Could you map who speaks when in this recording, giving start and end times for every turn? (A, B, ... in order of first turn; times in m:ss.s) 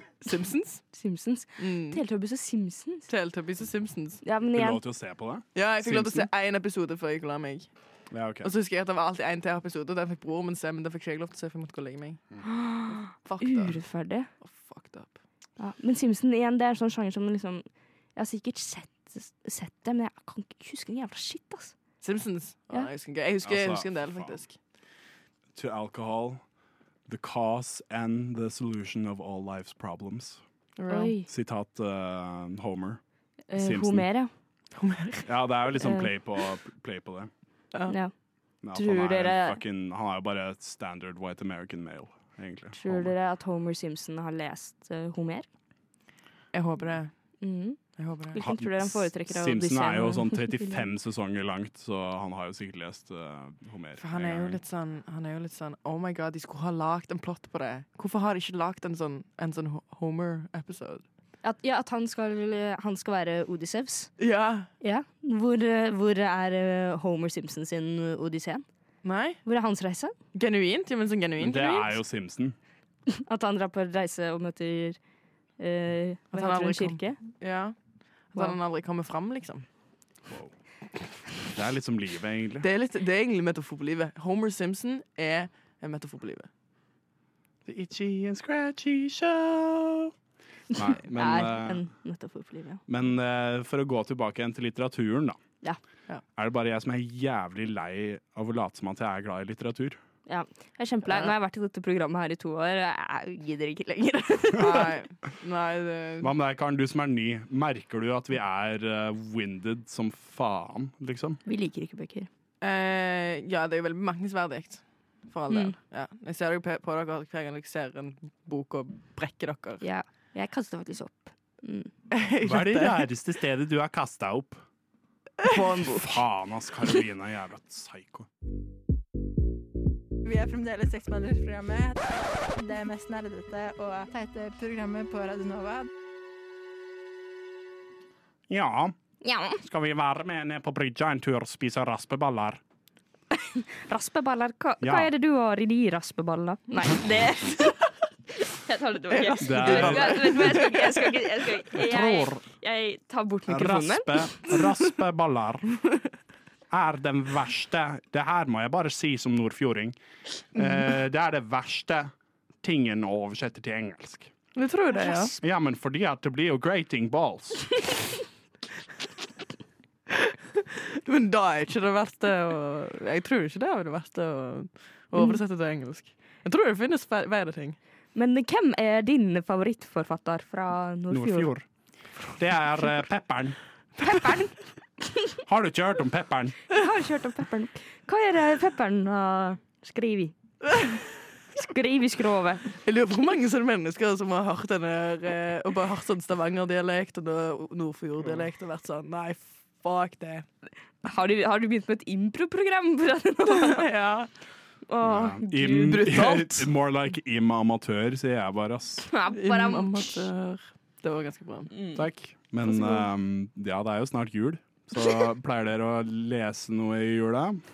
0:00.2-0:00.8 A
0:00.9-0:03.1 B
0:01.6-0:02.0 A
0:03.1-0:04.2 A
0:04.2-0:04.8 B
0:04.5-0:06.3 C
0:05.5-0:07.7 A
0:08.1-0:08.5 C
0:08.4-0:12.2 A
0:12.4-0:14.3 B
0:12.9-0:13.8 A
0:14.4-0:15.2 A
0:15.6-0:21.7 B
0:22.0-0:24.5 A
0:23.4-0:24.4 C
0:25.5-0:26.4 C
0:27.1-0:30.4 C
0:30.8-0:31.1 A
0:30.9-0:31.3 B
0:31.3-0:33.0 C
0:33.5-0:34.3 B
0:33.5-0:34.0 C
0:34.7-0:35.3 A
0:35.2-0:37.3 C
0:35.8-0:36.1 B
0:38.6-0:43.1 C
0:38.7-0:39.6 B
0:42.8-0:45.5 B
0:46.5-0:47.1 A
0:47.4-0:47.8 B
0:48.0-0:48.4 A
0:48.3-0:50.8 B
0:48.4-0:54.6 C
0:54.0-1:01.0 A
1:01.4-1:04.1 B
1:04.2-1:04.7 A
1:04.8-1:08.6 B
1:09.0-1:09.4 A
1:09.4-1:10.1 B
1:10.3-1:11.9 A
1:11.4-1:12.6 C
1:13.1-1:15.0 B
1:15.6-1:17.2 B
1:16.3-1:17.7 A
1:18.3-1:19.6 A
1:21.5-1:22.7 C
1:22.6-1:26.5 A
1:27.6-1:30.1 C
1:30.7-1:31.9 C
1:30.7-1:32.8 B
1:32.9-1:35.4 C
1:36.4-1:40.0 C
1:40.3-1:44.9 B
1:44.6-1:46.3 A
1:46.2-1:51.4 C
1:51.4-1:52.3 B
1:52.6-1:59.8 A
1:55.5-1:55.8 B
1:59.8-2:01.9 B
2:02.1-2:03.0 A
2:02.4-2:04.6 C
2:05.5-2:06.2 B
2:05.5-2:08.3 C
2:10.2-2:15.9 D
2:18.5-2:18.9 C
2:19.2-2:19.6 B
2:19.6-2:22.6 C
2:23.5-2:34.4 B
2:24.8-2:25.1 C
2:29.1-2:31.2 A
2:29.4-2:30.6 C
2:31.7-2:32.4 C
2:33.5-2:35.8 C
2:36.7-2:40.0 C
2:40.5-2:44.3 C
2:44.5-2:45.4 A
2:45.4-2:47.8 C
2:50.1-2:57.8 A
2:58.1-3:01.5 B
3:01.1-3:01.7 C
3:02.4-3:03.6 C
3:04.0-3:04.5 B
3:04.1-3:04.4 A
3:05.4-3:06.6 C
3:06.7-3:10.3 B
3:10.7-3:11.0 A
3:11.5-3:12.7 B
3:12.7-3:20.4 A
3:21.0-3:23.9 B
3:23.5-3:24.3 A
3:24.9-3:26.1 B
3:25.0-3:29.1 C
3:25.9-3:26.7 A
3:29.1-3:30.3 B
3:29.3-3:31.7 A
3:31.7-3:32.0 B
3:31.9-3:37.6 C